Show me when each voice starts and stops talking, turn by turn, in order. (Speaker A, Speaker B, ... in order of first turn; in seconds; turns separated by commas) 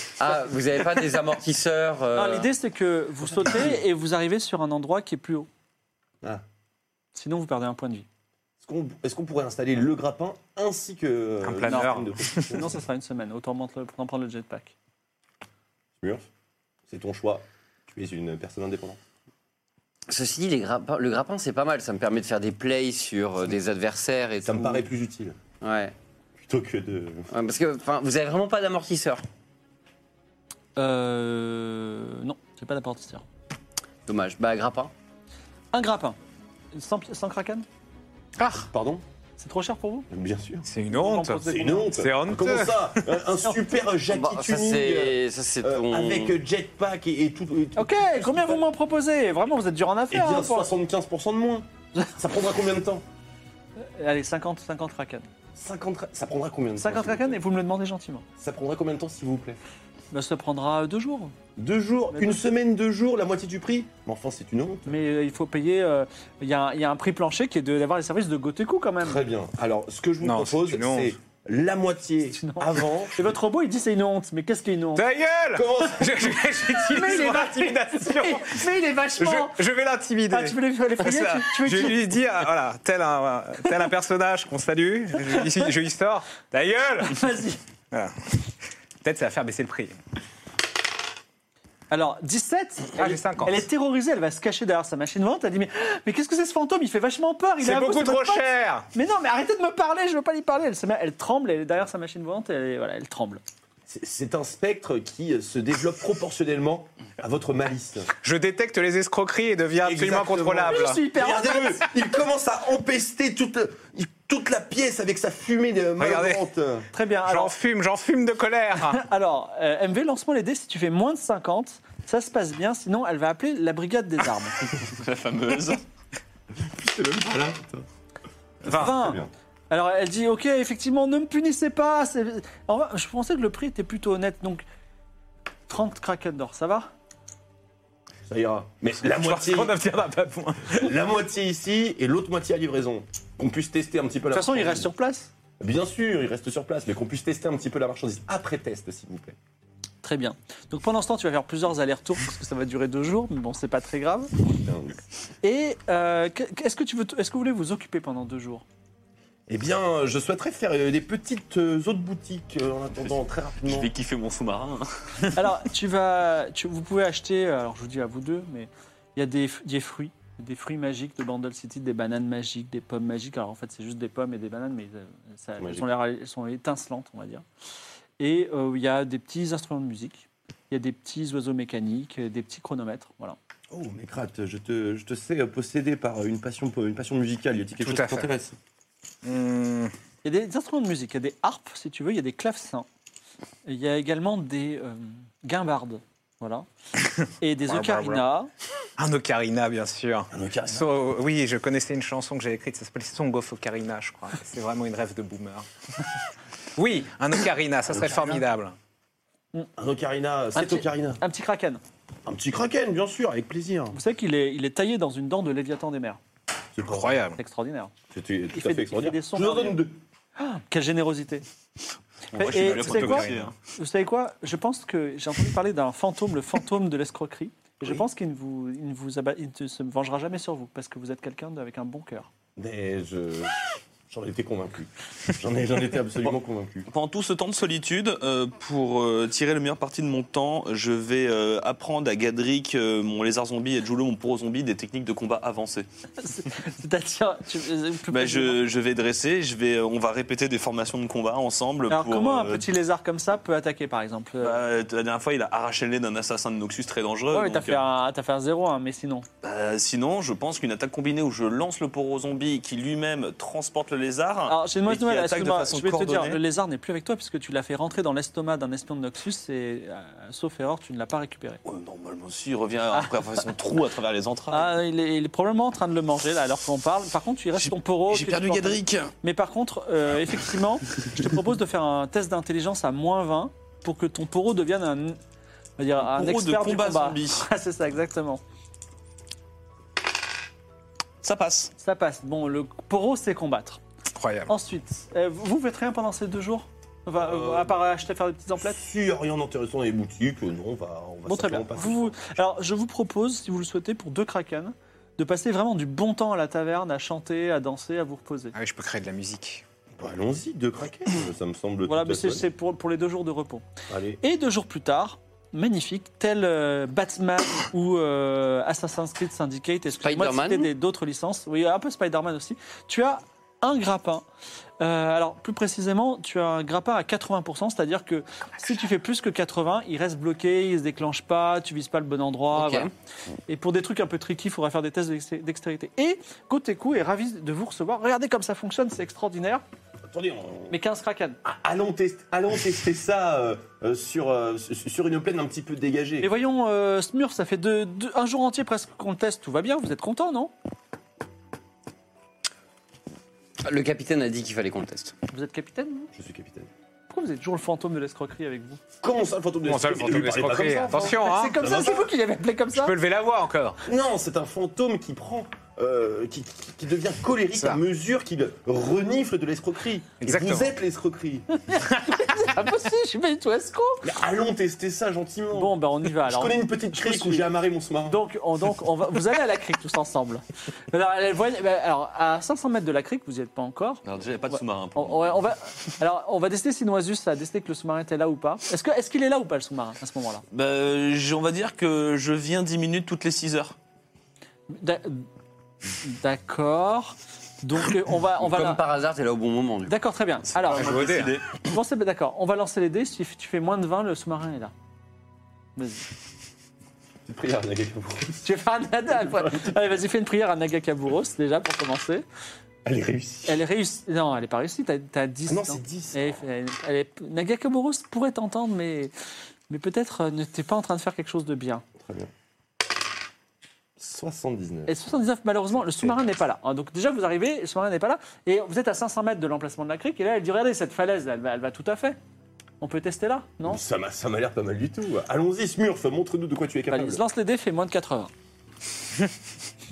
Speaker A: 0.2-2.5, Speaker B: 2.2-5.5, Speaker B: 7.1-8.1, Speaker C: 8.6-12.8, Speaker D: 11.4-12.6, Speaker B: 11.7-12.0, Speaker B: 12.5-14.8, Speaker C: 16.0-16.3, Speaker C: 16.9-19.0, Speaker A: 20.1-24.9, Speaker C: 24.4-25.4, Speaker A: 25.6-25.9, Speaker C: 26.4-27.3, Speaker A: 27.3-29.2, Speaker B: 30.8-33.2, Speaker A: 34.1-34.9, Speaker B: 35.7-36.2, Speaker B: 36.7-37.7, Speaker D: 38.4-38.7, Speaker C: 38.5-39.0, Speaker B: 39.4-40.1, Speaker C: 40.1-40.7, Speaker D: 40.6-43.2, Speaker B: 40.9-41.9, Speaker C: 41.4-48.6, Speaker A: 44.1-46.4, Speaker B: 47.8-50.7, Speaker C: 50.1-53.0, Speaker B: 53.8-55.3, Speaker C: 55.6-57.4, Speaker B: 56.8-58.2, Speaker C: 58.4-59.6, Speaker B: 60.1-61.3, Speaker C: 61.6-65.0, Speaker B: 62.1-62.4, Speaker B: 64.9-69.2, Speaker C: 69.0-73.2, Speaker D: 70.2-71.1, Speaker B: 72.3-75.1, Speaker D: 75.0-87.4, Speaker C: 75.5-76.3, Speaker B: 76.7-79.6, Speaker B: 80.3-82.0, Speaker B: 85.3-85.6, Speaker B: 87.1-87.6, Speaker D: 87.9-90.0, Speaker B: 91.9-103.4, Speaker D: 93.0-93.6, Speaker D: 97.6-98.9, Speaker C: 103.9-108.1, Speaker D: 108.2-111.0, Speaker C: 109.8-116.9, Speaker B: 110.7-111.8, Speaker D: 116.0-116.5, Speaker B: 116.9-117.5, Speaker D: 117.2-119.0, Speaker B: 118.8-124.6, Speaker E: 124.9-125.8, Speaker C: 126.6-127.8, Speaker C: 128.6-129.3, Speaker D: 128.7-128.9, Speaker B: 128.7-134.6, Speaker B: 135.7-136.9, Speaker C: 138.3-139.8, Speaker D: 139.0-140.9, Speaker C: 140.7-144.9, Speaker B: 144.3-145.3, Speaker C: 145.6-149.3, Speaker B: 150.0-154.3, Speaker C: 154.4-155.0, Speaker B: 155.4-158.6, Speaker C: 159.5-163.9, Speaker E: 163.0-164.8, Speaker B: 165.3-177.4, Speaker C: 175.6-175.9, Speaker B: 178.2-183.4, Speaker C: 183.7-188.6, Speaker D: 187.8-188.3, Speaker D: 189.2-189.9, Speaker B: 190.2-192.9, Speaker B: 193.6-196.7, Speaker B: 197.4-198.5, Speaker D: 197.6-198.2, Speaker D: 199.0-205.7, Speaker C: 200.3-200.9, Speaker D: 206.8-208.8, Speaker C: 207.9-208.4, Speaker C: 209.8-211.2, Speaker B: 210.6-211.8, Speaker C: 212.3-214.0, Speaker B: 213.9-216.2, Speaker C: 216.8-217.2, Speaker D: 216.8-217.4, Speaker B: 217.4-217.9, Speaker C: 218.1-220.0, Speaker B: 218.5-219.8, Speaker B: 220.4-221.4, Speaker E: 222.3-223.6, Speaker B: 222.4-232.3, Speaker D: 222.5-223.5, Speaker C: 232.6-236.9, Speaker E: 236.9-245.9, Speaker B: 246.2-248.6, Speaker E: 248.1-252.7, Speaker B: 251.9-254.6, Speaker E: 254.4-257.8, Speaker B: 257.3-259.3, Speaker E: 259.4-266.4, Speaker B: 264.5-271.6, Speaker E: 271.6-274.7, Speaker B: 274.5-285.2, Speaker E: 277.6-279.1, Speaker B: 285.8-288.4, Speaker E: 286.0-287.4, Speaker E: 291.2-291.7, Speaker B: 291.8-293.8, Speaker D: 294.1-294.5, Speaker B: 294.5-298.8, Speaker C: 297.2-297.8, Speaker C: 298.6-302.4, Speaker B: 301.3-308.6, Speaker D: 308.5-309.6, Speaker C: 310.0-312.5, Speaker B: 311.9-313.6, Speaker C: 313.9-314.2, Speaker B: 314.2-324.2, Speaker A: 320.0-320.7, Speaker B: 324.8-332.9, Speaker A: 332.5-332.9, Speaker B: 333.5-339.6, Speaker C: 340.1-340.7, Speaker B: 340.7-341.4, Speaker C: 341.4-346.3, Speaker B: 346.2-350.5, Speaker A: 353.6-355.1, Speaker B: 355.3-356.1, Speaker C: 356.1-356.7, Speaker B: 357.1-358.8, Speaker C: 359.0-362.1, Speaker D: 359.6-361.6, Speaker B: 361.1-362.9, Speaker D: 362.7-363.8, Speaker C: 363.8-371.5, Speaker D: 367.5-367.8, Speaker D: 370.2-370.7, Speaker B: 371.7-374.1, Speaker C: 374.0-378.2, Speaker B: 375.5-377.5, Speaker B: 378.1-390.4, Speaker E: 384.0-385.5, Speaker E: 390.5-393.8, Speaker B: 394.7-395.3, Speaker B: 396.0-398.8, Speaker A: 398.4-399.9, Speaker B: 399.9-400.9, Speaker E: 400.5-401.6, Speaker D: 400.7-401.4, Speaker B: 401.7-404.7, Speaker B: 405.8-406.1, Speaker C: 407.3-408.4, Speaker B: 408.4-412.2, Speaker C: 409.2-409.7, Speaker C: 412.9-413.6, Speaker B: 413.5-419.1, Speaker C: 415.5-416.4, Speaker B: 419.7-421.8, Speaker C: 422.0-422.3, Speaker C: 424.0-425.0, Speaker B: 424.9-432.2, Speaker C: 425.8-426.2, Speaker B: 432.8-433.8, Speaker C: 433.6-437.2, Speaker B: 436.9-438.3